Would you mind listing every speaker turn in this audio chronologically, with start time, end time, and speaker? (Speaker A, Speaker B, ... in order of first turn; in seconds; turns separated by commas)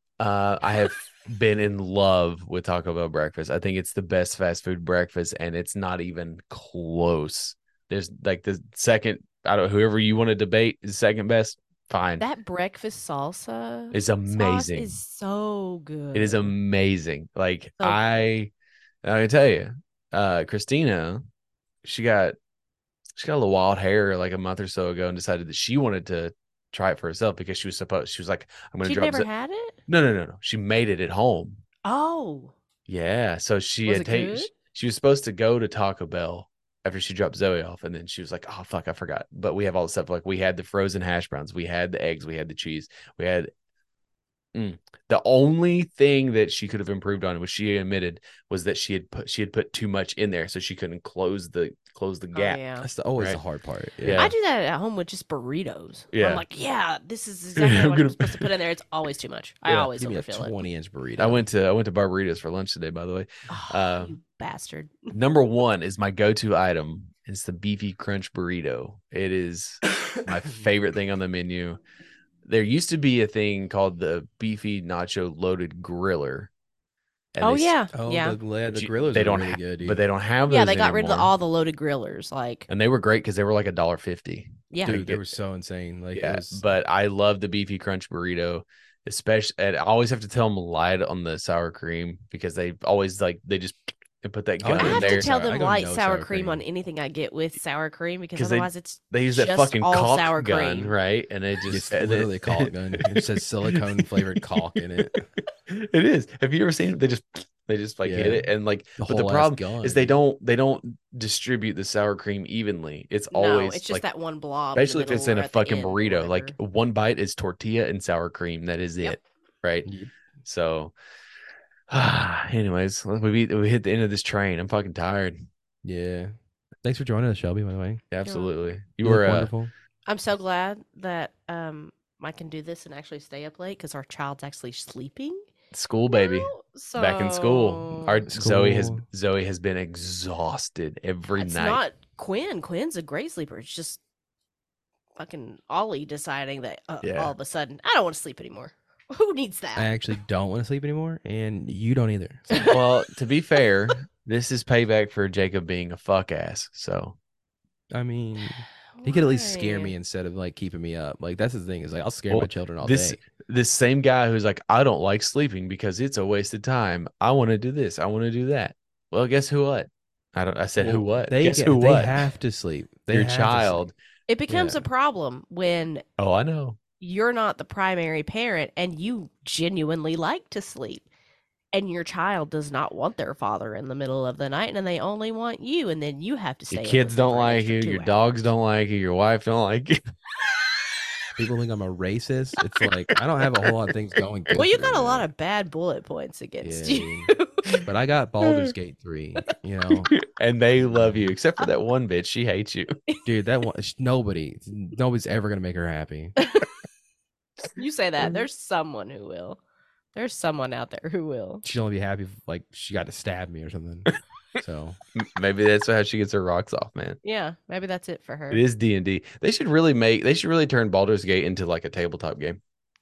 Speaker A: 0.2-12.2, Speaker B: 12.2-16.5, Speaker A: 13.9-14.9, Speaker A: 16.1-18.5, Speaker A: 19.0-21.2, Speaker A: 21.8-22.4, Speaker A: 23.1-29.3, Speaker B: 28.8-29.8, Speaker A: 29.9-31.6, Speaker B: 31.8-32.5, Speaker A: 32.9-43.5, Speaker B: 33.9-34.5, Speaker A: 44.5-52.6, Speaker B: 52.3-52.9, Speaker C: 52.8-54.3, Speaker A: 54.0-54.3, Speaker B: 54.1-60.5, Speaker A: 56.1-56.4, Speaker A: 57.5-58.5, Speaker C: 59.7-61.4, Speaker A: 61.2-64.2, Speaker B: 63.5-65.1, Speaker A: 65.1-71.8, Speaker A: 72.4-76.5, Speaker A: 77.3-77.8, Speaker B: 77.4-78.4, Speaker C: 77.9-80.0, Speaker A: 78.7-81.3, Speaker B: 80.5-82.7, Speaker A: 82.7-85.3, Speaker B: 84.7-85.0, Speaker C: 84.8-86.6, Speaker A: 86.1-95.3, Speaker C: 94.6-96.6, Speaker B: 94.8-100.9, Speaker A: 98.3-104.4, Speaker C: 101.7-105.2, Speaker A: 105.1-114.0, Speaker C: 108.0-108.5, Speaker C: 109.0-110.1, Speaker B: 113.3-116.5, Speaker A: 114.8-119.9, Speaker C: 119.8-120.1, Speaker A: 120.4-120.9, Speaker A: 121.9-125.5, Speaker C: 125.8-126.3, Speaker C: 126.8-128.0, Speaker A: 128.1-129.5, Speaker B: 128.2-128.5, Speaker C: 129.0-129.7, Speaker B: 130.1-135.4, Speaker A: 135.7-141.8, Speaker B: 136.1-138.2, Speaker C: 138.3-139.0, Speaker B: 141.3-144.0, Speaker B: 145.2-149.9, Speaker A: 147.0-147.3, Speaker C: 149.8-152.7, Speaker B: 152.5-152.8, Speaker A: 152.6-157.2, Speaker C: 157.9-163.2, Speaker B: 159.0-159.9, Speaker A: 162.3-172.2, Speaker C: 170.8-173.8, Speaker A: 173.1-173.9, Speaker B: 174.3-176.0, Speaker C: 174.5-174.8, Speaker A: 176.2-176.8, Speaker B: 177.0-181.0, Speaker B: 181.7-188.2, Speaker A: 186.7-190.0, Speaker C: 191.3-195.3, Speaker B: 194.5-197.7, Speaker C: 196.6-197.3, Speaker C: 197.8-200.1, Speaker A: 200.1-202.9, Speaker C: 200.8-201.2, Speaker C: 203.2-206.3, Speaker B: 206.4-206.7, Speaker B: 207.7-209.6, Speaker B: 210.1-211.6, Speaker C: 211.6-215.0, Speaker A: 215.1-217.2, Speaker B: 217.2-218.6, Speaker A: 218.5-222.6